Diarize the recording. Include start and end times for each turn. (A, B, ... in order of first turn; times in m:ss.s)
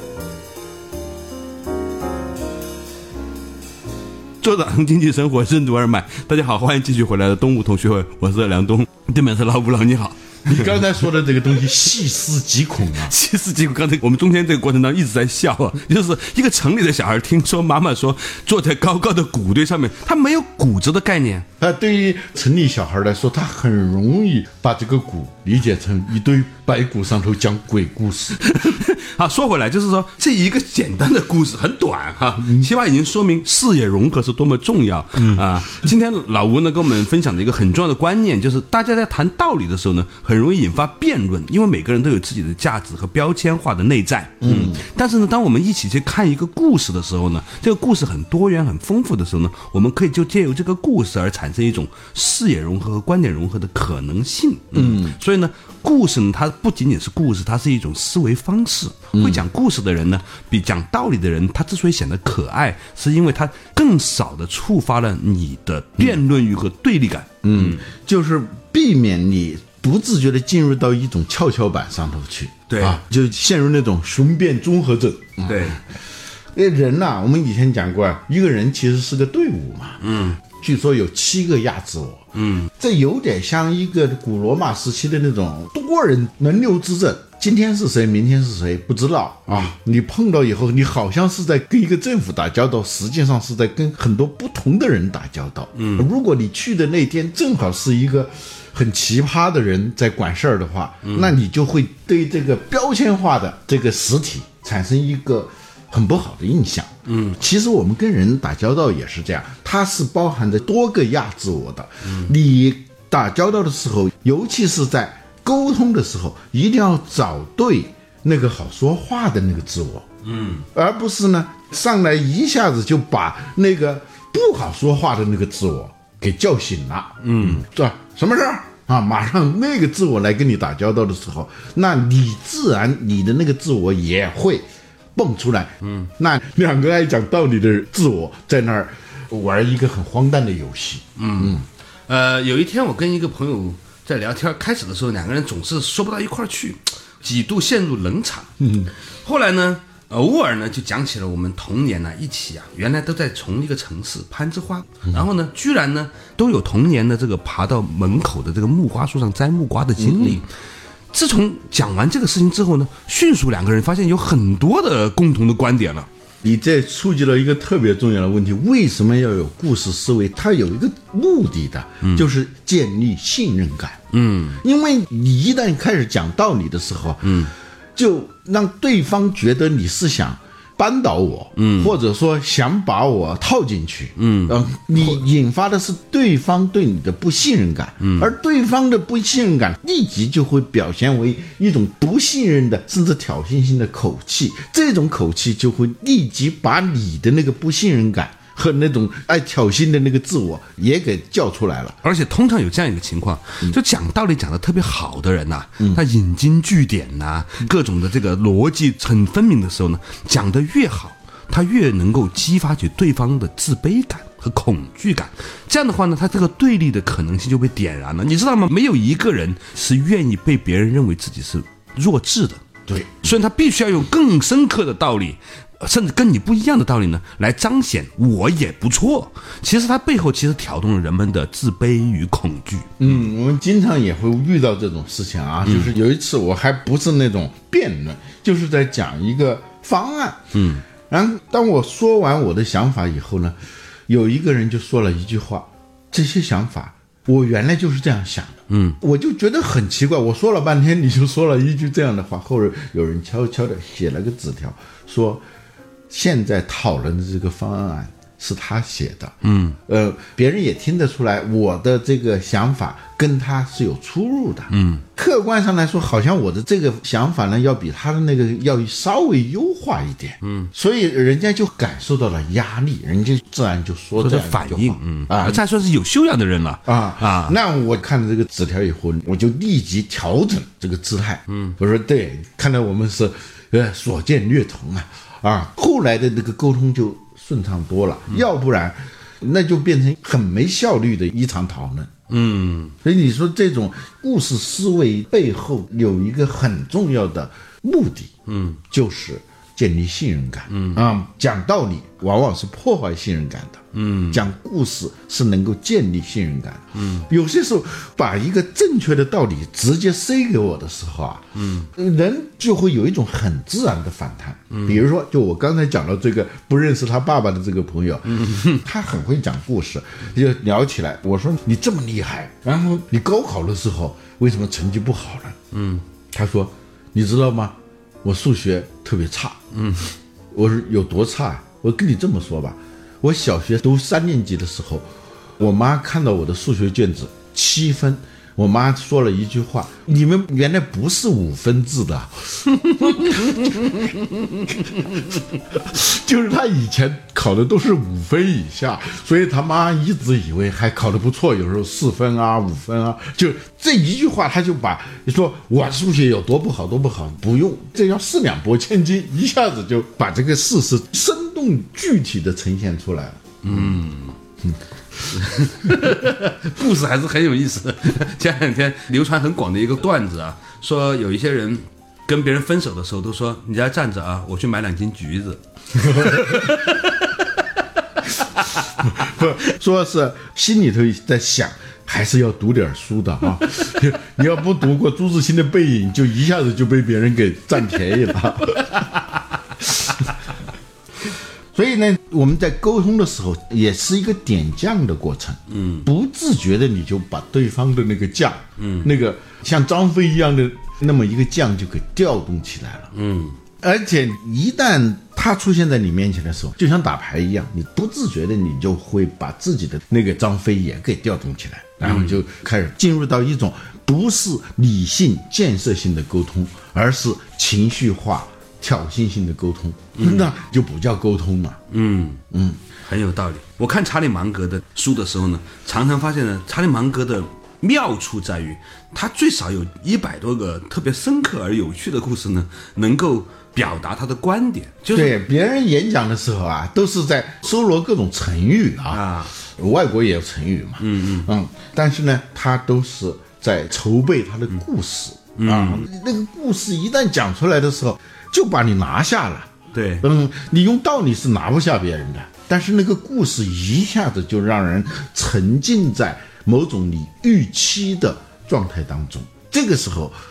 0:04.4-0:10.9 A
0:10.4-0:13.1 B
0:13.0-0:21.5 A
0:21.6-0:28.4 B
0:28.4-1:07.8 A
0:32.4-0:32.7 B
0:35.2-0:35.4 B
0:44.4-0:44.8 B
0:54.7-0:55.2 B
0:59.1-0:59.4 B
1:07.4-1:15.8 B
1:12.7-1:13.0 A
1:15.4-1:15.8 A
1:16.5-2:00.1 B
1:20.0-1:20.4 A
1:22.4-1:22.7 A
1:35.8-1:36.1 A
1:41.0-1:41.3 A
1:47.1-1:47.4 A
1:52.1-1:52.3 A
2:00.2-2:00.7 A
2:00.7-2:21.6 B
2:07.2-2:07.6 A
2:15.8-2:16.1 A
2:21.2-2:28.6 A
2:28.6-2:28.9 B
2:29.2-2:40.5 A
2:40.0-2:40.4 B
2:41.1-2:46.1 A
2:46.4-2:54.0 B
2:52.0-2:52.3 A
2:54.1-2:54.6 A
2:54.6-3:22.0 B
2:57.2-2:57.5 A
3:01.6-3:02.0 A
3:04.2-3:05.2 A
3:08.0-3:08.3 A
3:22.0-3:42.6 A
3:42.9-3:43.3 B
3:43.2-3:53.2 A
3:53.0-4:03.6 B
3:55.6-3:55.9 A
4:00.5-4:00.8 A
4:04.1-4:15.4 B
4:08.7-4:09.0 A
4:16.1-4:19.4 B
4:19.4-4:19.8 A
4:19.9-4:35.6 B
4:24.7-4:25.0 A
4:30.4-4:30.7 A
4:34.2-4:37.6 A
4:36.9-4:52.1 B
4:41.5-4:41.8 A
4:52.3-4:53.0 A
4:53.0-4:58.3 B
4:58.5-4:58.8 A
4:58.9-5:25.6 B
5:00.7-5:01.0 A
5:03.9-5:04.4 A
5:07.0-5:07.3 A
5:11.6-5:11.9 A
5:14.7-5:15.0 A
5:18.4-5:18.8 A
5:25.7-5:26.0 A
5:26.3-5:29.6 B
5:29.7-5:30.1 A
5:30.5-5:44.1 B
5:44.7-6:04.0 B
6:03.6-6:04.4 A
6:05.3-6:17.3 A
6:16.1-6:16.6 B
6:19.0-6:29.0 B
6:29.9-6:30.2 B
6:31.7-6:43.1 B
6:35.7-6:36.1 A
6:38.8-6:39.1 A
6:43.1-6:43.6 A
6:43.8-7:01.8 B
6:52.0-6:52.4 A
7:00.2-7:00.5 A
7:01.9-7:02.4 A
7:02.5-7:02.8 B
7:03.0-7:15.4 A
7:15.1-7:40.4 B
7:19.1-7:19.5 A
7:21.0-7:21.5 A
7:25.6-7:26.1 A
7:29.9-7:30.3 A